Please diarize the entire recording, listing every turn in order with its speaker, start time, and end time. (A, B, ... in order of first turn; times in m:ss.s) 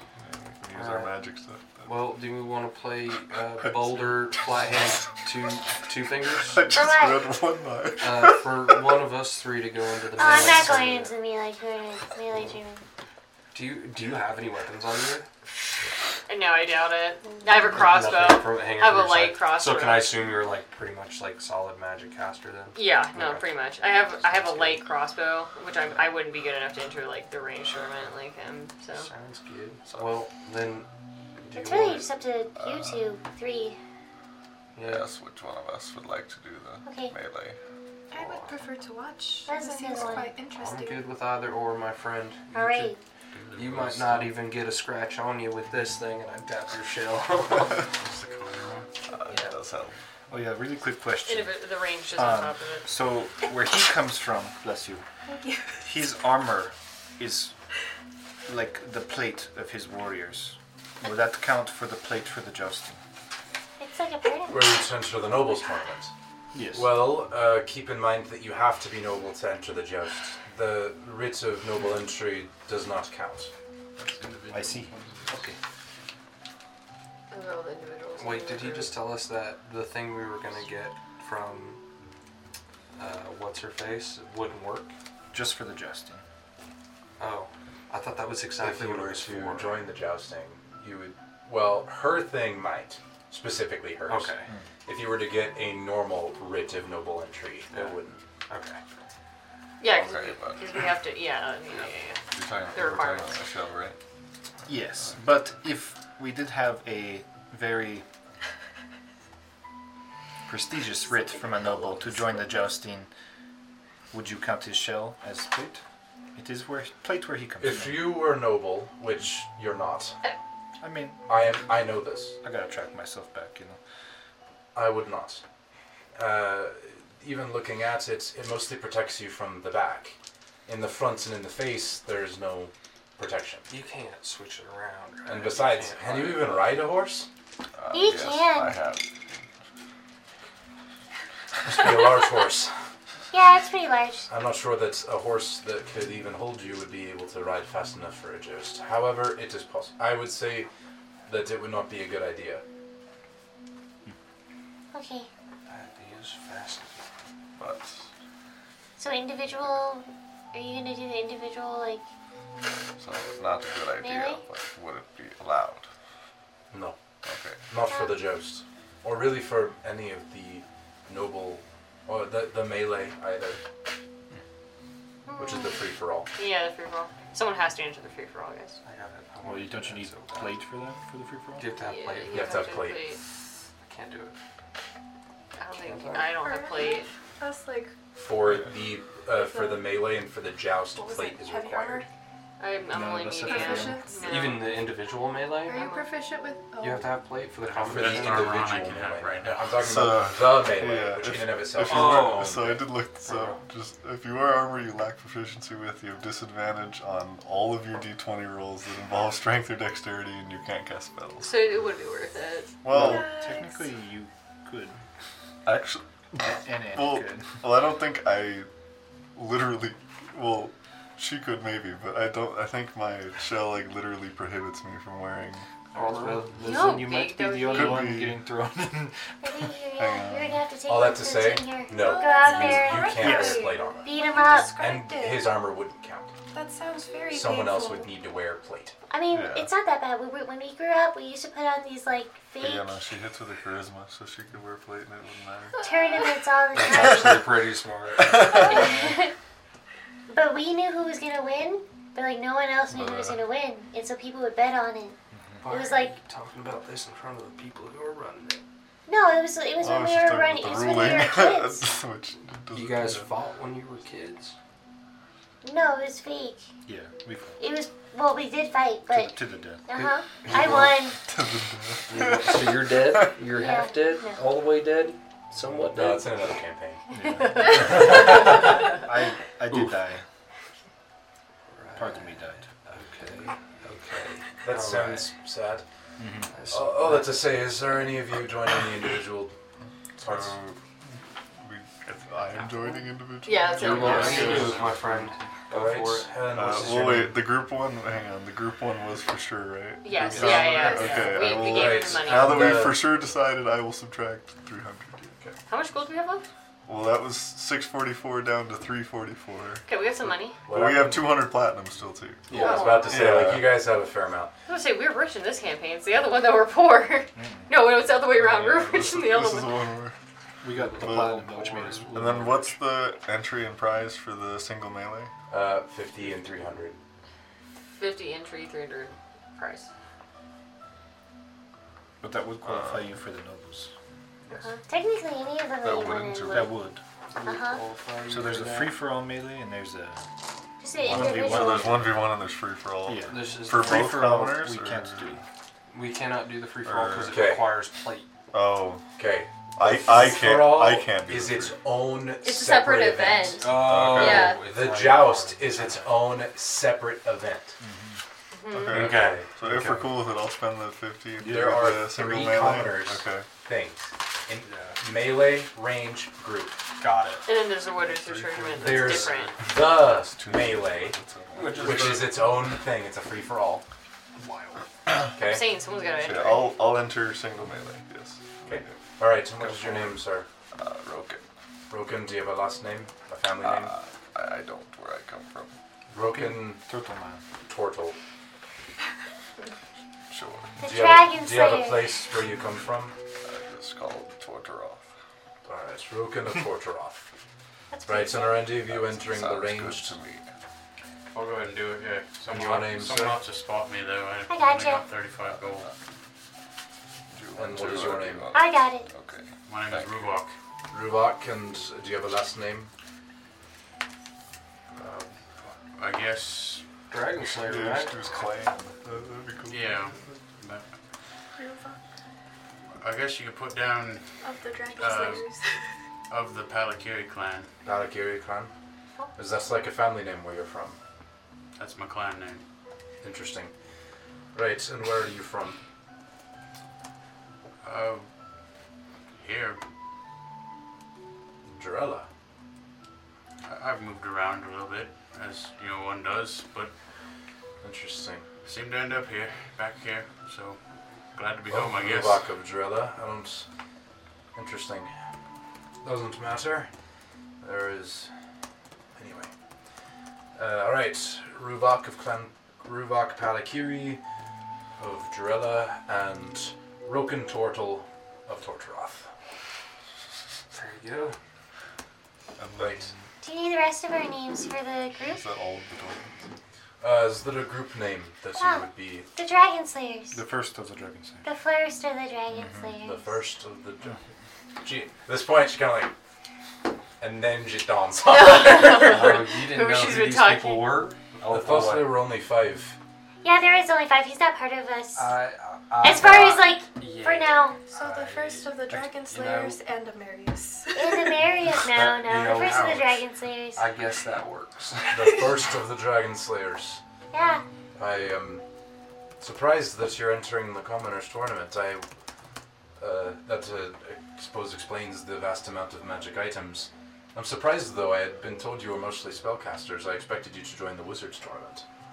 0:00.2-0:02.2 A
0:00.7-0:01.2 B
0:01.8-0:06.6 B
0:03.6-0:05.0 A
0:06.3-0:09.0 A
0:06.7-0:07.4 C
0:08.0-0:11.1 B
0:10.2-0:12.8 C
0:10.3-0:10.7 A
0:13.5-0:15.3 B
0:16.3-0:20.3 D
0:17.7-0:23.6 B
0:22.8-0:29.1 D
0:24.1-0:24.9 B
0:28.9-0:30.9 B
0:31.4-0:32.1 B
0:31.5-0:33.8 C
0:32.6-0:33.1 A
0:34.8-0:35.1 B
0:34.8-0:37.6 A
0:36.9-0:37.1 C
0:38.1-0:41.1 E
0:38.1-0:38.6 B
0:39.5-0:40.3 C
0:40.4-0:42.9 B
0:42.5-0:43.0 C
0:43.3-0:44.4 F
0:43.5-0:47.8 B
0:47.8-0:48.9 F
0:49.1-0:50.0 A
0:49.3-0:49.6 D
0:50.3-0:51.6 G
0:51.2-0:52.9 D
0:52.2-0:55.0 G
0:55.3-0:55.8 E
0:55.8-0:57.5 G
0:58.5-1:03.0 G
1:03.8-1:04.8 C
1:04.5-1:06.1 H
1:06.5-1:07.0 G
1:06.7-1:13.5 H
1:14.0-1:15.5 F
1:14.5-1:15.6 G
1:17.3-1:19.0 D
1:18.2-1:21.8 B
1:23.0-1:24.9 B
1:25.3-1:26.2 G
1:27.2-1:29.9 B
1:28.6-1:34.3 H
1:34.1-1:34.5 B
1:34.9-1:38.2 H
1:37.7-1:38.8 B
1:39.8-1:42.2 D
1:39.9-1:40.7 A
1:42.3-1:44.0 A
1:42.7-1:43.4 D
1:44.7-1:48.0 G
1:50.5-1:53.1 G
1:54.1-1:55.8 G
1:56.4-1:58.2 G
1:57.6-2:00.2 H
2:00.8-2:01.2 G
2:01.3-2:02.4 H
2:02.4-2:03.8 G
2:04.8-2:05.4 H
2:06.2-2:13.7 H
2:13.7-2:16.8 B
2:15.3-2:17.3 H
2:17.8-2:19.1 A
2:17.9-2:18.8 C
2:21.6-2:22.7 H
2:23.3-2:24.3 C
2:24.3-2:30.7 H
2:31.3-2:32.6 H
2:34.9-2:35.3 C
2:35.7-2:37.0 B
2:37.6-2:38.1 A
2:39.0-2:42.0 C
2:43.0-2:45.9 A
2:44.0-2:44.4 C
2:46.7-2:47.0 H
2:47.2-2:47.6 A
2:47.7-2:53.6 H
2:47.9-2:48.1 C
2:55.3-2:55.8 C
2:55.4-2:56.3 H
2:56.4-2:58.8 D
2:58.8-3:00.6 B
2:59.4-3:01.7 G
3:01.6-3:02.9 B
3:01.8-3:03.2 D
3:02.3-3:03.0 H
3:03.8-3:04.4 B
3:05.6-3:07.1 D
3:05.8-3:06.4 B
3:06.4-3:08.0 E
3:08.2-3:12.1 H
3:08.4-3:08.7 A
3:09.3-3:09.9 E
3:11.0-3:12.1 E
3:12.6-3:14.9 D
3:12.9-3:14.0 G
3:13.4-3:14.5 E
3:14.3-3:15.9 B
3:15.7-3:17.2 E
3:15.7-3:16.1 D
3:16.8-3:18.7 B
3:17.6-3:20.0 F
3:17.8-3:22.6 H
3:19.8-3:31.5 A
3:21.8-3:23.6 B
3:31.4-3:32.8 D
3:32.8-3:33.3 A
3:32.9-3:35.0 G
3:33.0-3:34.0 E
3:35.6-3:38.7 A
3:36.4-3:37.6 G
3:39.4-3:45.7 A
3:46.0-3:46.9 B
3:46.0-3:49.2 G
3:46.6-3:48.1 D
3:47.7-3:48.4 A
3:49.4-3:54.8 C
3:50.0-3:50.7 A
3:50.9-3:54.1 H
3:51.9-3:55.6 E
3:53.2-3:53.6 G
3:54.7-3:56.3 H
3:56.5-3:58.2 E
3:57.3-3:58.9 H
3:59.1-4:03.1 C
3:59.3-3:59.7 A
4:02.6-4:05.9 A
4:05.8-4:06.4 E
4:05.8-4:07.4 C
4:06.7-4:09.2 B
4:06.9-4:07.5 A
4:08.2-4:08.9 A
4:08.6-4:09.3 C
4:10.3-4:16.2 C
4:12.9-4:13.4 A
4:15.3-4:15.6 G
4:15.6-4:18.6 B
4:19.1-4:21.8 C
4:19.8-4:23.3 A
4:22.7-4:24.6 B
4:25.6-4:26.7 C
4:26.9-4:27.6 G
4:27.6-4:29.4 C
4:29.1-4:29.8 G
4:29.9-4:31.2 C
4:29.9-4:31.0 B
4:30.6-4:33.4 A
4:32.1-4:36.3 B
4:33.5-4:34.4 C
4:35.9-4:37.0 H
4:37.1-4:40.2 G
4:37.7-4:38.6 H
4:39.7-4:40.0 B
4:41.7-4:45.3 B
4:42.0-4:42.7 G
4:44.6-4:45.8 H
4:46.2-4:46.5 G
4:46.5-4:47.7 B
4:46.7-4:49.5 H
4:50.2-4:55.3 A
4:50.2-4:50.6 H
4:52.0-4:53.1 F
4:53.4-4:54.6 D
4:53.8-4:56.3 B
4:54.1-4:54.7 H
4:54.5-4:55.0 F
4:55.7-4:57.4 H
4:56.5-5:05.4 A
5:00.0-5:02.9 D
5:00.3-5:01.1 B
5:00.3-5:03.0 H
5:05.7-5:06.4 D
5:06.9-5:09.8 A
5:09.9-5:10.6 D
5:10.6-5:11.4 H
5:10.7-5:13.8 A
5:12.5-5:14.5 H
5:12.5-5:13.4 D
5:14.7-5:19.8 D
5:17.4-5:17.8 G
5:18.4-5:20.2 A
5:20.6-5:22.7 G
5:20.7-5:22.7 B
5:21.0-5:21.5 A
5:22.1-5:25.3 A
5:25.5-5:27.0 H
5:27.9-5:29.9 D
5:32.2-5:33.9 G
5:32.6-5:33.1 A
5:34.6-5:36.8 C
5:35.8-5:36.7 A
5:36.5-5:37.0 G
5:37.3-5:39.0 B
5:37.5-5:37.8 C
5:38.3-5:40.2 G
5:40.8-5:42.2 C
5:41.0-5:42.2 G
5:41.0-5:45.4 A
5:43.0-5:45.4 G
5:43.3-5:44.2 B
5:45.9-5:48.3 B
5:46.8-5:47.5 A
5:47.3-5:47.7 H
5:48.5-5:49.0 A
5:49.2-5:57.8 H
5:49.8-5:51.8 A
5:52.4-5:54.6 D
5:53.6-5:56.2 B
5:53.7-5:54.6 A
5:57.8-5:58.2 G
5:58.5-5:59.0 D
5:58.7-6:03.5 A
5:58.9-5:59.5 H
5:59.0-6:00.2 B
5:59.1-5:59.4 F
6:01.4-6:01.9 G
6:01.4-6:06.8 H
6:04.6-6:05.0 B
6:07.0-6:07.5 B
6:07.4-6:09.6 D
6:08.0-6:12.7 A
6:08.7-6:09.5 B
6:08.8-6:11.2 H
6:11.5-6:12.5 B
6:11.8-6:13.8 H
6:14.4-6:14.9 B
6:15.4-6:15.7 H
6:15.4-6:16.8 D
6:16.2-6:19.0 A
6:18.6-6:20.5 H
6:19.6-6:20.0 B
6:20.7-6:21.4 A
6:21.9-6:23.9 H
6:23.6-6:25.7 A
6:26.1-6:26.8 H
6:26.4-6:27.4 G
6:27.7-6:28.2 H
6:30.3-6:30.8 A
6:30.8-6:32.2 C
6:30.8-6:33.2 H
6:33.4-6:35.0 A
6:35.7-6:37.3 H
6:37.9-6:38.7 C
6:38.1-6:40.2 H
6:38.8-6:40.5 A
6:41.3-6:45.9 F
6:42.5-6:43.4 H
6:44.5-6:45.1 C
6:45.4-6:46.0 A
6:47.3-6:50.4 A
6:47.6-6:48.5 H
6:48.5-6:49.1 C
6:49.7-6:50.5 F
6:50.9-6:52.9 H
6:55.0-6:55.3 H
6:56.0-6:56.9 F
6:57.1-6:58.2 B
6:57.4-7:00.3 A
6:59.7-7:00.9 F
7:01.6-7:02.0 E
7:03.0-7:04.4 F
7:04.4-7:05.9 E
7:05.0-7:05.5 F
7:06.3-7:07.7 F
7:07.8-7:08.7 H
7:09.4-7:11.0 H
7:11.8-7:12.6 F
7:13.2-7:13.7 H
7:14.5-7:15.8 H
7:17.8-7:18.3 F
7:19.4-7:19.8 F
7:21.8-7:22.3 H
7:23.6-7:26.9 F
7:27.8-7:28.5 H
7:28.6-7:30.8 F
7:31.3-7:32.5 F
7:31.7-7:33.7 H
7:34.6-7:35.1 H
7:36.0-7:36.9 H
7:37.6-7:38.3 H
7:39.2-7:39.5 H
7:40.6-7:44.2 H
7:45.0-7:49.3 H
7:50.7-7:51.4 B
7:52.6-7:53.2 A
7:52.8-7:53.1 H
7:53.4-7:55.4 C
7:55.2-7:56.4 A
7:57.0-7:59.3 H
7:58.6-8:00.4 C
8:00.3-8:01.5 G
8:01.4-8:03.3 C
8:02.5-8:03.0 G
8:03.0-8:04.2 H
8:04.8-8:06.1 H
8:07.2-8:09.1 H
8:08.2-8:11.0 D
8:08.8-8:12.1 B
8:11.5-8:13.0 H
8:13.4-8:15.4 C
8:15.2-8:19.8 B
8:16.0-8:17.8 C
8:17.9-8:21.4 E
8:21.0-8:23.9 C
8:21.7-8:23.1 B
8:22.6-8:23.1 F
8:23.8-8:25.5 B
8:25.1-8:27.0 H
8:27.3-8:27.6 C
8:28.0-8:28.6 H
8:29.4-8:32.0 H
8:33.0-8:41.8 H